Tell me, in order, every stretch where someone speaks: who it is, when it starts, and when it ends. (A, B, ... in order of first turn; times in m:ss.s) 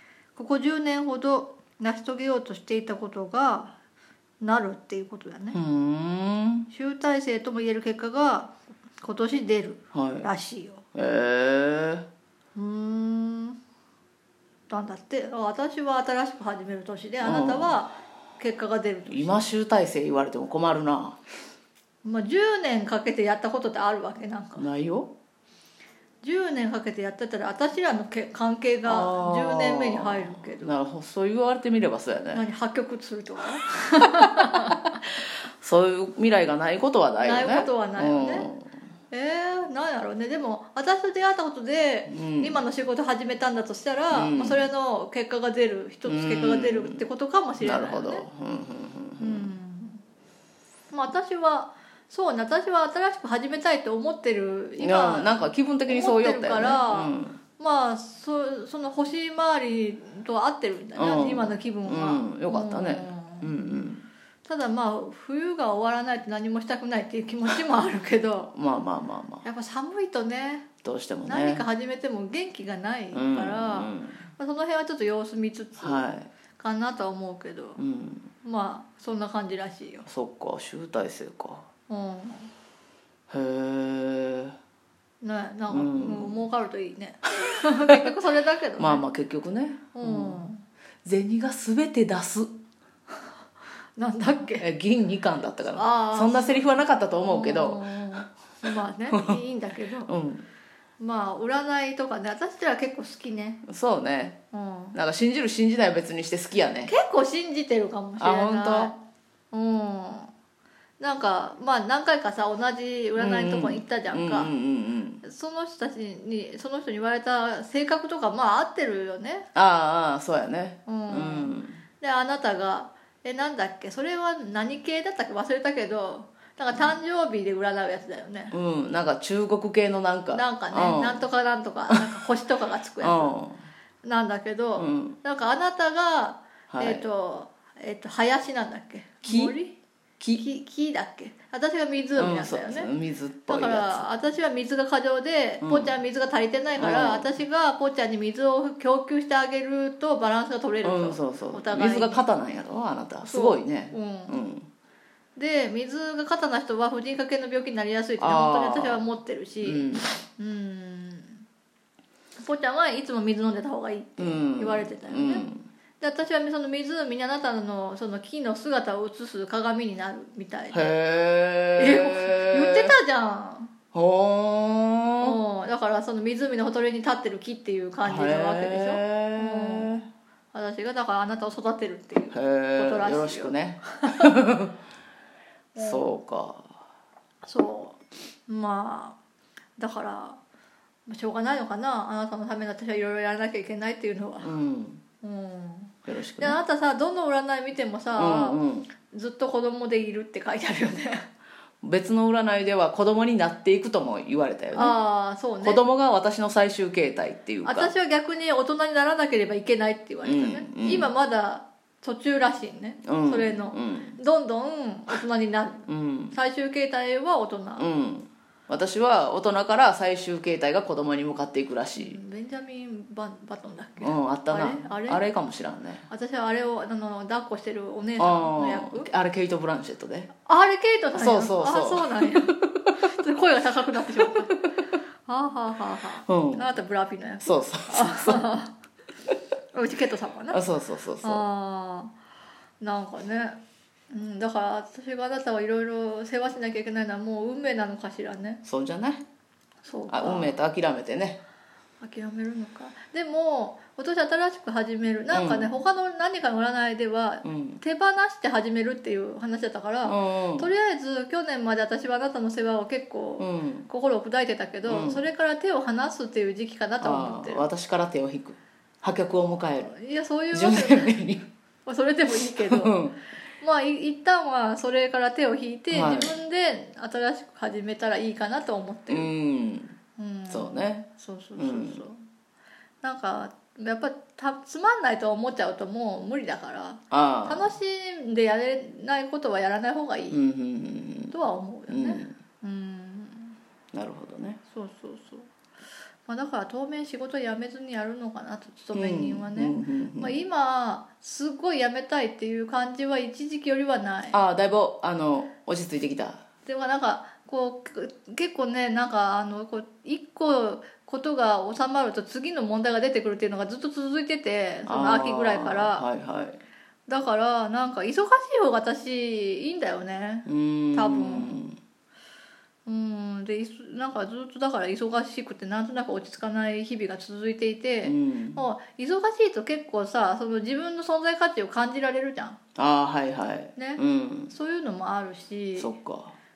0:00.4-0:03.7 A
0:04.4-0:05.6 A
0:05.5-0:06.7 B
0:06.7-0:10.8 A
0:09.9-0:10.3 B
0:10.9-0:12.0 B
0:12.5-0:13.6 A
0:14.7-0:19.4 A
0:17.2-0:17.8 B
0:19.1-0:21.2 B
0:22.0-0:24.6 A
0:24.6-0:25.1 B
0:26.2-0:30.8 A
0:28.8-0:32.4 B
0:32.3-0:35.0 A
0:34.2-0:34.8 B
0:35.6-0:38.7 B
0:37.2-0:38.5 A
0:39.1-0:48.2 A
0:42.1-0:42.6 B
0:44.1-0:44.6 B
0:46.0-0:47.0 B
0:47.6-0:49.5 B
0:49.2-0:50.0 A
0:50.9-1:03.5 A
0:54.8-0:57.4 B
1:01.0-1:04.0 B
1:04.4-1:08.5 A
1:08.5-1:09.4 B
1:09.4-1:10.7 A
1:10.8-1:11.6 B
1:11.2-1:16.0 A
1:13.1-1:14.2 B
1:15.8-1:16.3 B
1:16.6-1:17.8 A
1:17.8-1:18.3 B
1:18.4-1:20.0 A
1:20.0-1:21.7 B
1:21.9-1:22.5 A
1:23.3-1:24.5 B
1:25.2-1:29.0 A
1:25.7-1:26.4 B
1:28.8-1:30.5 B
1:29.9-1:30.6 A
1:31.0-1:32.5 B
1:34.0-1:34.6 A
1:34.6-1:38.2 B
1:35.7-1:40.1 A
1:39.1-1:39.4 B
1:40.1-1:40.4 B
1:41.0-1:43.6 A
1:43.6-1:44.4 B
1:44.5-1:45.0 A
1:44.9-1:46.9 B
1:46.8-1:49.0 A
1:48.2-1:48.9 B
1:49.5-1:50.3 A
1:51.0-1:54.5 A
1:53.2-1:55.2 B
1:55.2-1:59.5 A
1:59.5-2:01.8 B
2:00.9-2:08.5 A
2:08.5-2:11.2 B
2:10.3-2:13.4 A
2:13.0-2:13.6 B
2:14.0-2:19.8 A
2:14.8-2:15.2 B
2:16.7-2:17.0 B
2:19.2-2:19.6 B
2:20.2-2:20.4 B
2:20.3-2:22.9 A
2:22.2-2:24.0 B
2:23.5-2:32.3 A
2:25.6-2:25.9 B
2:26.8-2:27.3 B
2:30.8-2:34.7 B
2:33.2-2:34.4 A
2:35.4-2:41.4 A
2:38.2-2:39.0 B
2:39.6-2:40.2 B
2:42.4-2:45.5 A
2:44.2-2:45.7 B
2:46.0-2:51.0 A
2:50.7-2:52.9 B
2:51.8-2:53.7 A
2:53.9-2:55.4 B
2:55.2-3:04.3 A
2:58.0-3:00.0 B
3:02.3-3:04.7 B
3:05.7-3:06.1 A
3:05.8-3:06.8 B
3:07.4-3:09.2 A
3:09.8-3:10.4 A
3:11.1-3:14.5 A
3:14.4-3:15.0 B
3:15.2-3:21.3 A
3:16.1-3:16.6 B
3:18.1-3:18.9 B
3:21.8-3:25.0 B
3:24.7-3:25.8 A
3:25.6-3:27.9 B
3:27.6-3:37.9 A
3:30.2-3:31.1 B
3:33.0-3:34.2 B
3:35.9-3:36.4 B
3:37.8-3:42.2 B
3:41.9-3:45.2 A
3:44.0-3:46.1 B
3:46.1-3:49.1 A
3:48.2-3:50.3 B
3:50.4-3:54.7 A
3:51.1-3:53.0 B
3:55.2-3:58.7 A
3:56.2-3:56.7 B
3:57.4-3:58.5 B
3:59.7-4:00.6 A
4:00.5-4:01.4 B
4:01.2-4:02.1 A
4:02.8-4:03.6 A
4:04.1-4:08.6 A
4:08.6-4:09.2 B
4:09.8-4:10.5 A
4:10.1-4:11.4 B
4:12.0-4:27.6 A
4:15.3-4:15.7 B
4:17.4-4:17.8 B
4:20.0-4:20.7 B
4:23.4-4:23.9 B
4:24.8-4:25.2 B
4:27.0-4:29.9 B
4:29.8-4:31.2 A
4:30.5-4:31.4 B
4:31.8-4:33.0 A
4:32.6-4:33.2 B
4:33.6-4:39.3 A
4:35.9-4:36.4 B
4:39.1-4:39.9 B
4:40.2-4:42.2 A
4:40.5-4:42.0 B
4:43.0-4:50.4 A
4:47.1-4:47.7 B
4:50.3-4:51.4 B
4:51.3-4:53.6 A
4:51.9-4:52.3 B
4:53.9-4:54.6 B
4:54.7-4:55.5 A
4:56.2-5:04.4 A
4:58.9-5:00.4 B
5:04.3-5:06.4 B
5:06.6-5:16.0 A
5:14.8-5:16.6 B
5:17.1-5:21.6 A
5:20.4-5:21.8 B
5:22.8-5:32.6 A
5:28.0-5:28.6 B
5:32.8-5:34.5 B
5:33.8-5:35.9 A
5:35.8-5:36.4 B